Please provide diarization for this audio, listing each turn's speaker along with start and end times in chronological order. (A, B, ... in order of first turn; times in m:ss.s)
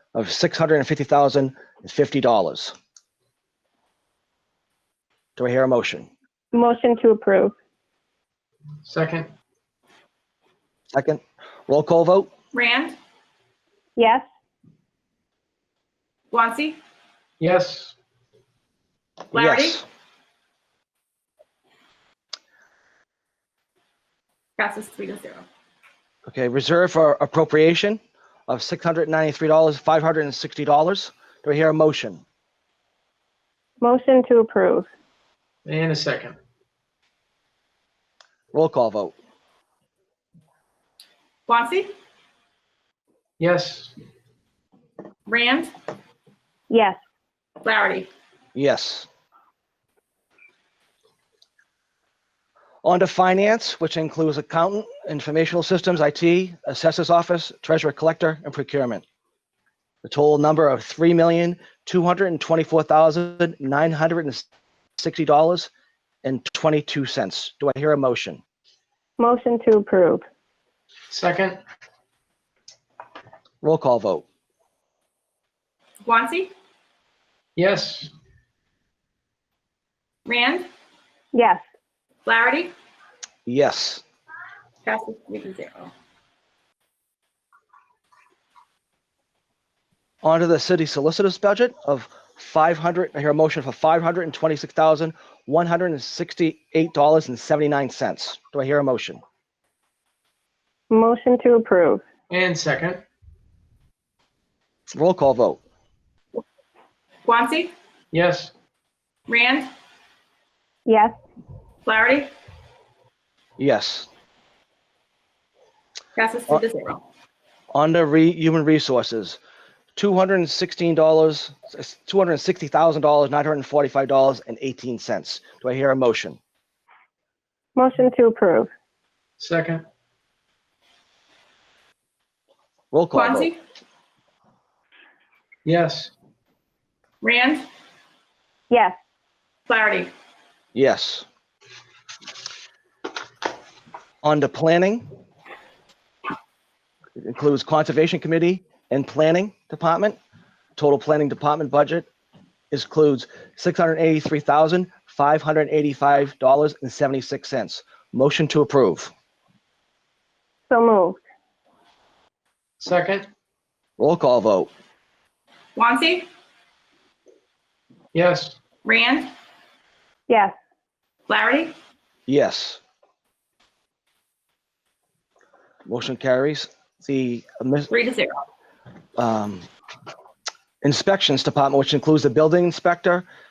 0:00.2-0:02.8 A
0:05.4-0:06.1 A
0:06.5-0:07.5 B
0:08.8-0:09.3 C
0:10.9-0:12.3 A
0:12.5-0:13.0 D
0:14.0-0:14.2 B
0:16.3-0:16.8 D
0:17.4-0:18.0 C
0:19.3-0:19.8 A
0:19.3-0:19.8 D
0:24.6-0:25.5 D
0:26.3-0:32.2 A
0:33.8-0:34.9 B
0:35.7-0:36.4 C
0:38.5-0:39.2 A
0:41.5-0:41.9 D
0:43.4-0:43.9 C
0:45.3-0:45.7 D
0:46.7-0:47.0 B
0:47.6-0:48.1 D
0:48.6-0:49.1 A
0:52.8-0:59.0 A
1:00.0-1:04.4 A
1:05.0-1:05.7 A
1:06.2-1:08.4 A
1:09.2-1:10.3 B
1:11.1-1:11.6 C
1:13.6-1:14.2 A
1:16.0-1:16.5 D
1:17.6-1:18.1 C
1:20.3-1:20.7 D
1:21.3-1:21.6 B
1:22.3-1:22.7 D
1:23.5-1:24.0 A
1:24.8-1:25.9 D
1:30.2-1:39.2 A
1:40.9-1:42.0 B
1:42.3-1:43.0 C
1:45.0-1:45.6 A
1:47.3-1:47.7 D
1:48.1-1:48.5 C
1:49.3-1:49.7 D
1:50.9-1:51.2 B
1:51.9-1:52.3 D
1:53.6-1:54.1 A
1:56.2-1:57.0 D
1:57.7-1:59.4 A
2:00.0-2:06.4 A
2:07.8-2:08.7 B
2:09.4-2:09.8 C
2:12.9-2:13.5 A
2:13.1-2:13.6 D
2:15.6-2:16.1 C
2:17.2-2:17.7 D
2:18.7-2:19.0 B
2:19.7-2:20.1 D
2:20.8-2:21.3 A
2:24.2-2:25.1 A
2:27.2-2:30.2 A
2:30.8-2:32.1 A
2:32.7-2:39.1 A
2:40.7-2:41.2 B
2:42.8-2:43.3 C
2:44.0-2:44.7 A
2:45.8-2:46.3 D
2:48.1-2:48.6 C
2:48.8-2:49.3 D
2:50.3-2:50.5 B
2:51.3-2:51.7 D
2:52.3-2:52.8 A
2:55.9-2:57.9 A
2:57.9-2:58.4 D
2:59.2-2:59.7 A
3:00.8-3:03.3 A